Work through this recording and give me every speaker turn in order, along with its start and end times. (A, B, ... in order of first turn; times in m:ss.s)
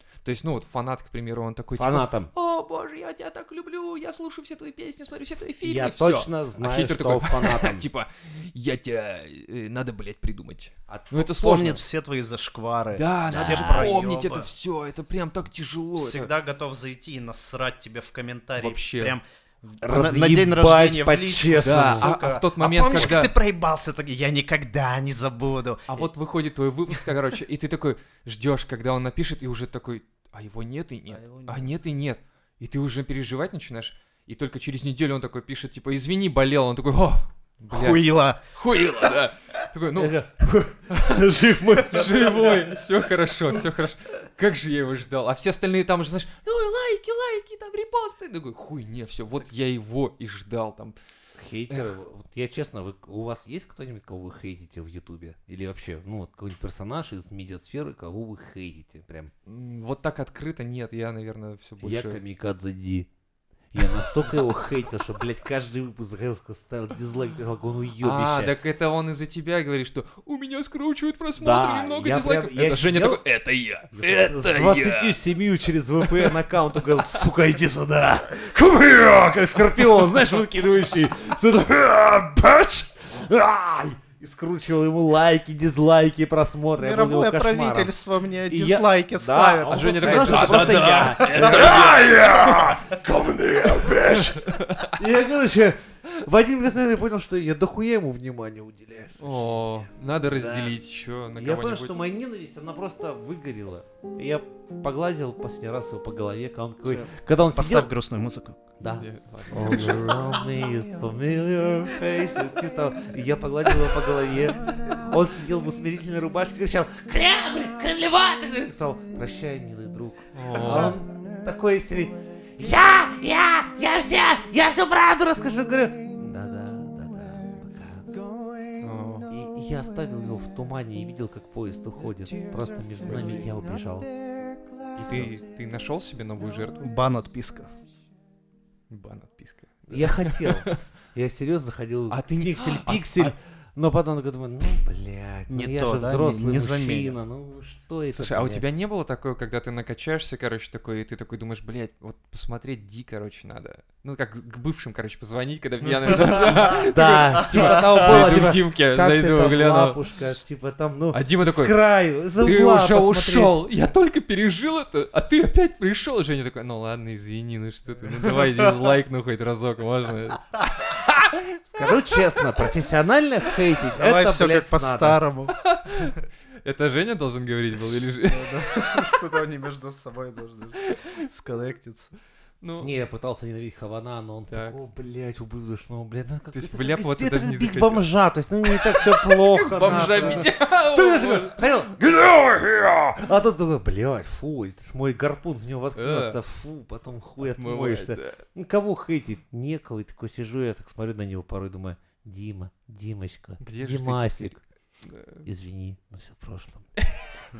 0:00.2-0:11.8 A
0:01.7-0:02.3 B
0:05.6-0:07.9 B
0:10.9-0:11.5 B
0:11.2-0:14.5 C
0:12.9-0:16.3 A
0:13.3-0:14.0 B
0:16.0-0:26.1 C
0:18.6-0:19.2 A
0:19.8-0:22.1 B
0:21.6-0:23.3 A
0:25.9-0:40.2 A
0:31.1-0:31.8 C
0:37.7-0:38.5 C
0:40.0-0:42.7 B
0:41.8-0:51.0 A
0:51.4-0:59.3 B
0:59.4-1:02.2 A
1:01.8-1:03.1 B
1:03.7-1:08.5 B
1:08.0-1:15.2 A
1:11.4-1:13.2 B
1:13.9-1:27.9 B
1:16.0-1:16.4 A
1:26.8-1:32.8 C
1:28.5-1:40.8 B
1:29.7-1:32.6 A
1:34.0-1:35.0 A
1:39.2-1:42.0 A
1:41.4-1:47.9 B
1:46.9-1:48.6 C
1:48.8-2:08.2 B
1:48.9-1:50.2 A
2:00.3-2:01.0 A
2:08.8-2:09.3 A
2:09.3-2:14.1 B
2:13.0-2:13.5 A
2:14.9-2:15.4 B
2:15.0-2:16.9 A
2:16.8-2:17.7 C
2:18.9-2:20.8 A
2:19.9-2:28.6 B
2:22.1-2:23.4 A
2:25.5-2:27.2 C
2:28.1-2:40.0 A
2:36.1-2:43.6 B
2:41.1-2:41.7 A
2:42.4-2:51.4 A
2:51.7-2:55.2 B
2:54.0-2:55.5 C
2:55.6-2:59.2 A
2:58.3-3:02.1 C
3:02.6-3:02.9 A
3:02.8-3:24.6 B
3:04.5-3:04.8 A
3:06.5-3:08.1 A
3:08.6-3:11.6 A
3:09.8-3:10.4 C
3:15.9-3:16.4 A
3:17.4-3:18.4 A
3:23.6-3:25.4 A
3:25.4-3:26.9 B
3:27.0-3:27.3 A